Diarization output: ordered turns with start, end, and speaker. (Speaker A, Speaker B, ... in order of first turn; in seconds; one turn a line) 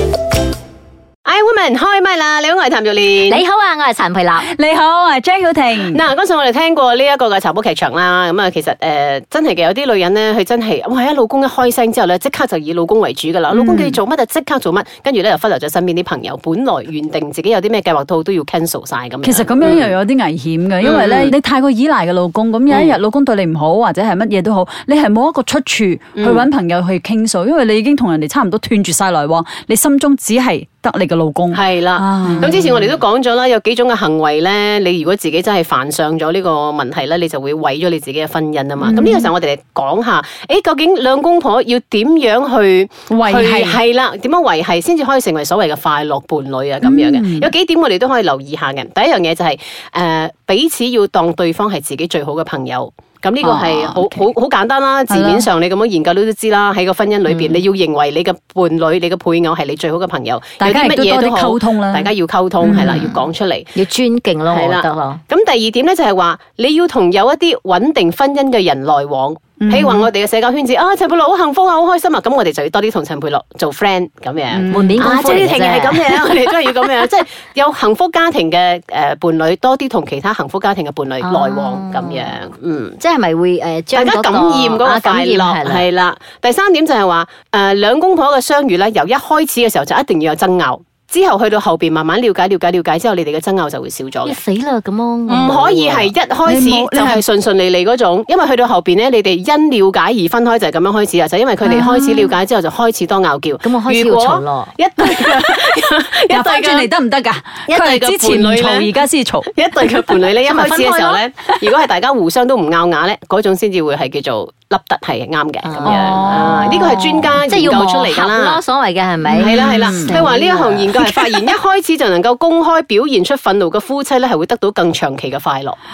Speaker A: 1.2-3.4
Speaker B: 3.2-4.5
Speaker C: 4.5-6.0
Speaker A: 5.9-20.0
Speaker C: 13.5-14.0
Speaker C: 19.2-32.5
Speaker A: 20.8-21.3
Speaker A: 22.7-23.0
Speaker A: 26.2-26.5
Speaker A: 31.5-63.8
Speaker C: 38.8-39.3
Speaker C: 43.1-43.8
Speaker C: 46.8-47.5
Speaker C: 53.4-54.3
Speaker C: 55.1-55.4
Speaker C: 60.6-63.1
Speaker B: 62.8-63.1
Speaker B: 63.7-65.2
Speaker A: 64.5-83.0
Speaker C: 69.6-70.1
Speaker C: 74.5-75.1
Speaker B: 74.7-76.7
Speaker B: 81.2-82.3
Speaker B: 83.0-85.9
Speaker A: 83.9-94.4
Speaker B: 94.2-96.1
Speaker A: 95.3-106.9
Speaker C: 96.5-97.2
Speaker C: 101.6-102.3
Speaker B: 103.6-104.7
Speaker C: 106.3-109.5
Speaker A: 107.7-108.9
Speaker A: 109.5-118.6
Speaker B: 110.4-111.5
Speaker B: 115.6-116.8
Speaker C: 115.8-117.4
Speaker B: 117.4-121.2
Speaker C: 119.3-120.3
Speaker A: 119.4-125.8